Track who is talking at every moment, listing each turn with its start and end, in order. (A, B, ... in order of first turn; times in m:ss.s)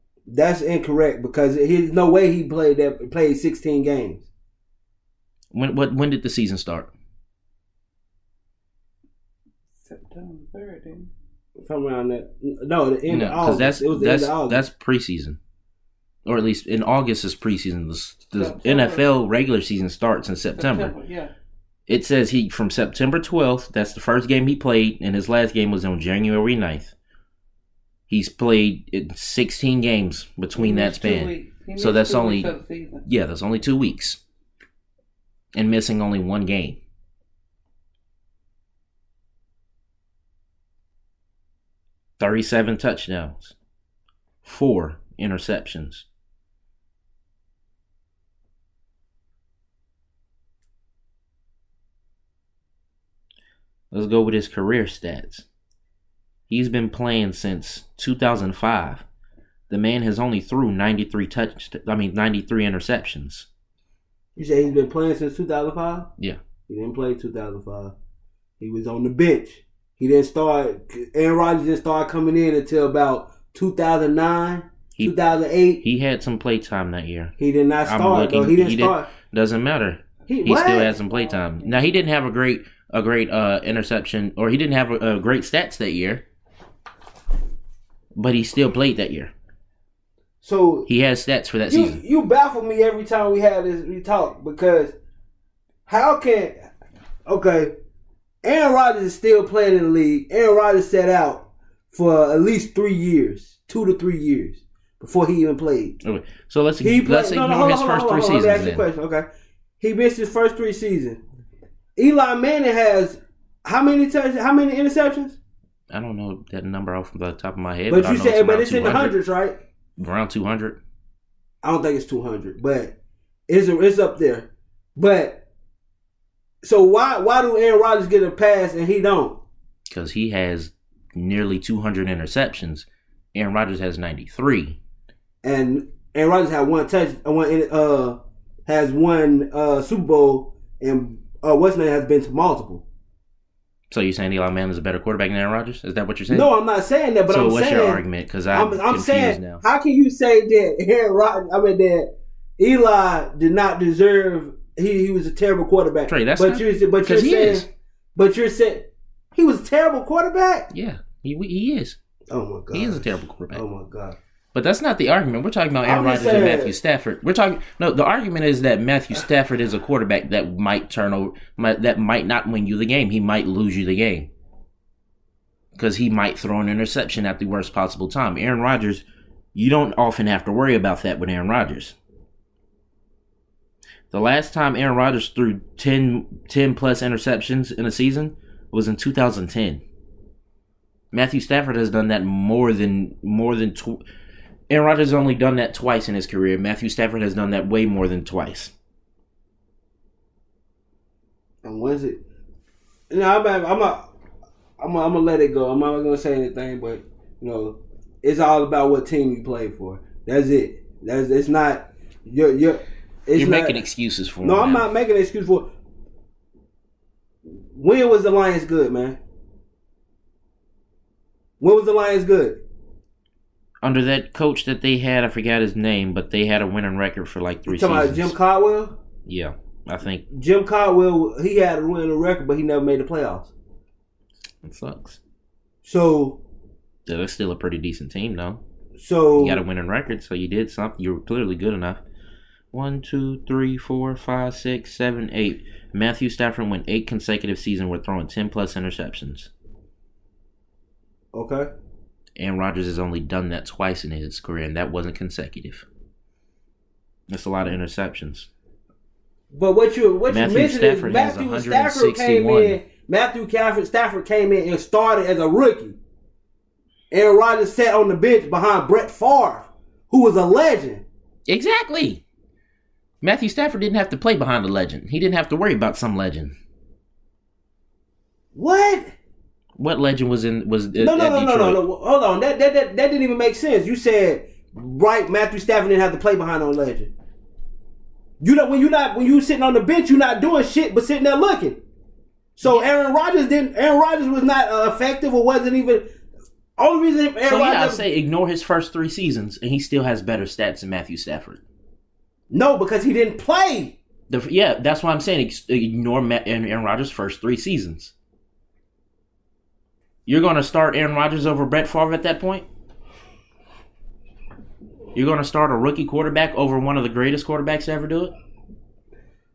0:00.3-0:04.3 A
0:05.5-0:06.9 B
0:09.8-0:11.1 C
0:11.6-0:14.6 A
0:13.1-0:15.4 B
0:16.2-0:20.9 B
0:18.4-0:19.0 C
0:20.6-0:21.3 C
0:21.9-0:26.9 B
0:28.1-0:32.5 B
0:30.5-0:33.0 C
0:33.0-0:34.2 B
0:35.5-0:36.8 B
0:42.2-0:43.5 B
0:44.4-0:46.0 B
0:53.9-0:55.4 B
0:56.5-0:59.0 B
0:59.7-1:03.5 B
1:04.4-1:06.1 A
1:06.7-1:07.9 A
1:08.6-1:15.8 A
1:15.8-1:17.3 B
1:17.4-1:19.1 A
1:17.8-1:26.2 B
1:20.3-1:21.0 A
1:28.1-1:29.3 B
1:30.4-1:30.9 A
1:30.8-1:32.0 B
1:31.7-1:34.9 A
1:35.9-1:36.7 A
1:37.2-1:37.7 A
1:38.4-1:46.0 A
1:46.0-1:48.9 B
1:46.8-1:49.2 A
1:49.8-1:51.2 A
1:52.0-1:55.4 A
1:55.9-1:59.2 B
1:57.9-1:59.6 A
2:00.0-2:00.8 B
2:01.6-2:03.0 A
2:03.5-2:05.4 A
2:06.6-2:09.4 A
2:09.9-2:14.8 B
2:15.4-2:22.8 A
2:23.9-2:26.5 B
2:26.3-2:40.7 A
2:27.3-2:29.6 B
2:36.1-2:37.7 B
2:40.7-2:42.0 B
2:42.3-2:44.2 A
2:42.7-2:43.6 B
2:44.5-2:54.3 B
2:45.8-2:46.7 A
2:55.7-3:02.0 B
3:04.1-3:09.8 B
3:11.1-3:14.0 B
3:14.7-3:18.7 B
3:21.6-3:22.2 A
3:23.1-3:24.1 A
3:24.8-3:33.8 A
3:33.3-3:34.9 B
3:34.4-3:35.7 A
3:37.5-3:39.2 A
3:41.6-3:42.6 A
3:43.8-3:48.3 B
3:47.7-3:49.0 A
3:49.2-3:50.2 B
3:50.3-3:53.5 A
3:54.6-3:55.2 B
3:55.8-3:56.4 A
3:57.0-3:58.6 B
3:59.0-3:59.6 A
3:59.4-4:02.0 B
4:02.7-4:09.5 B
4:11.3-4:11.7 A
4:12.4-4:15.8 B
4:17.3-4:18.5 B
4:19.5-4:26.0 A
4:20.3-4:22.8 B
4:27.1-4:31.0 A
4:31.5-4:32.2 B
4:33.2-4:36.5 B
4:38.5-4:39.1 A
4:39.8-4:41.8 B
4:41.0-4:47.1 A
4:48.4-4:51.8 A
4:52.6-4:56.0 A
4:52.6-4:52.9 B
4:56.8-4:58.0 A
4:57.4-5:01.6 B
5:02.5-5:04.0 A
5:04.3-5:08.1 B
5:10.2-5:12.6 B
5:15.1-5:18.3 B